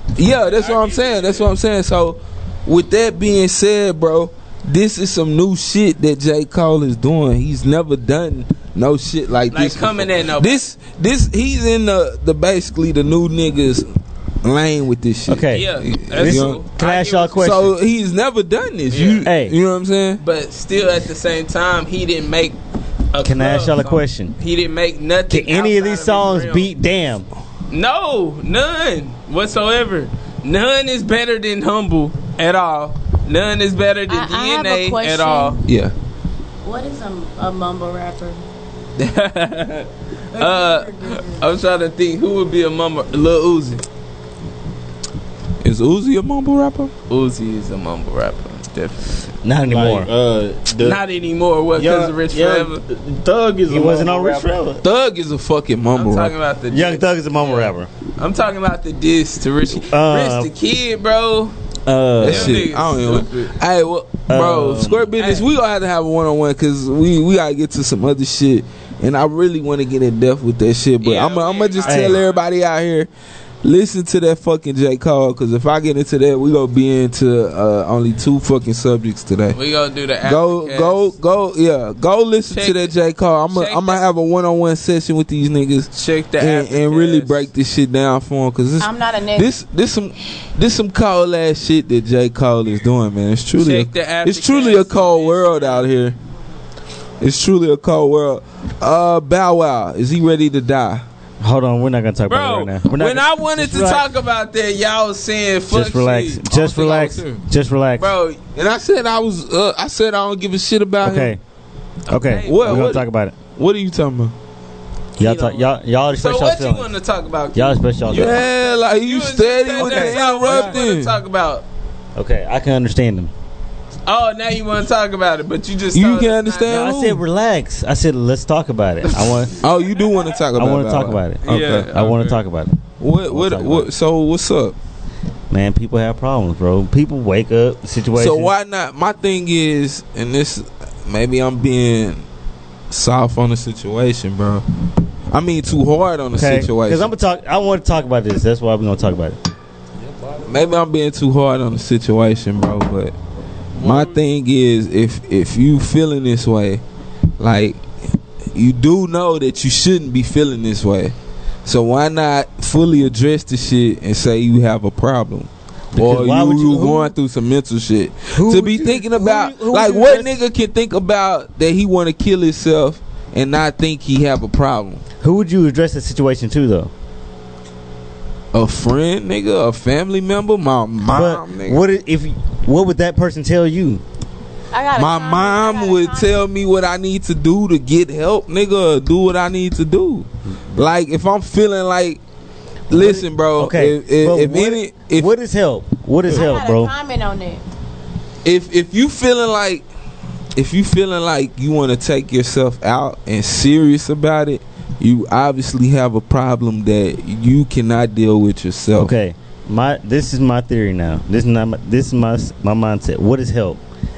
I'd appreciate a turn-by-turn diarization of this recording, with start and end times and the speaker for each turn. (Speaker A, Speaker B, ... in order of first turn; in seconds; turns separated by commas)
Speaker A: 0.1-13.9, Speaker B: 0.4-1.5, Speaker B: 9.5-10.6, Speaker A: 14.4-16.6, Speaker C: 15.3-17.7, Speaker B: 15.5-17.4, Speaker A: 17.4-20.2, Speaker B: 18.9-19.2, Speaker C: 19.2-19.5, Speaker B: 20.2-22.6, Speaker B: 23.1-26.7, Speaker C: 23.2-24.3, Speaker C: 25.3-27.3, Speaker B: 27.7-35.6, Speaker D: 34.1-35.6, Speaker A: 35.6-35.9, Speaker D: 36.6-38.4, Speaker B: 39.0-43.8, Speaker D: 40.4-41.4, Speaker A: 45.6-46.9, Speaker B: 47.1-49.3, Speaker C: 49.4-50.1, Speaker E: 49.7-51.0, Speaker B: 50.8-52.8, Speaker E: 51.8-54.5, Speaker C: 53.7-54.8, Speaker A: 54.8-56.3, Speaker B: 55.9-61.5, Speaker C: 56.7-57.9, Speaker C: 59.9-60.5, Speaker C: 61.9-62.6, Speaker B: 62.2-63.5, Speaker A: 62.2-73.1, Speaker C: 64.3-65.1, Speaker B: 65.2-65.5, Speaker B: 71.0-72.4, Speaker C: 71.8-72.2, Speaker A: 73.6-79.6, Speaker B: 79.5-81.1, Speaker A: 80.2-96.2, Speaker B: 82.5-82.9, Speaker B: 83.5-84.0, Speaker B: 85.9-87.4, Speaker D: 88.8-89.6, Speaker B: 93.6-95.8, Speaker A: 97.2-101.0, Speaker C: 101.4-104.1, Speaker B: 102.3-107.4, Speaker C: 105.7-108.1, Speaker B: 108.0-108.4, Speaker A: 108.5-111.3, Speaker C: 111.0-111.4, Speaker B: 112.1-112.9, Speaker C: 112.1-113.3, Speaker A: 112.5-113.0, Speaker A: 113.5-114.3, Speaker C: 115.2-116.9, Speaker B: 115.2-121.6, Speaker C: 117.5-118.4, Speaker A: 118.1-121.2, Speaker C: 119.8-120.8, Speaker C: 122.2-123.3, Speaker B: 124.1-126.9, Speaker A: 125.9-127.2, Speaker C: 126.7-129.5, Speaker A: 129.6-131.9, Speaker C: 130.5-133.9, Speaker B: 131.4-132.4, Speaker A: 133.0-134.8, Speaker C: 135.5-138.5, Speaker A: 138.2-142.2, Speaker A: 142.9-144.6, Speaker A: 145.3-147.1, Speaker C: 146.3-149.4, Speaker A: 150.4-153.1, Speaker B: 153.8-154.2, Speaker A: 153.8-156.8, Speaker A: 157.4-157.8, Speaker A: 158.5-161.1, Speaker A: 161.6-175.0, Speaker C: 165.9-167.1, Speaker C: 168.3-170.4, Speaker C: 175.2-176.9, Speaker A: 178.5-181.8, Speaker C: 181.1-184.0, Speaker D: 184.7-186.4, Speaker A: 184.9-192.2, Speaker A: 192.9-195.3, Speaker C: 192.9-196.9, Speaker D: 196.3-197.6, Speaker A: 198.4-199.8, Speaker A: 200.6-209.1, Speaker C: 209.0-213.8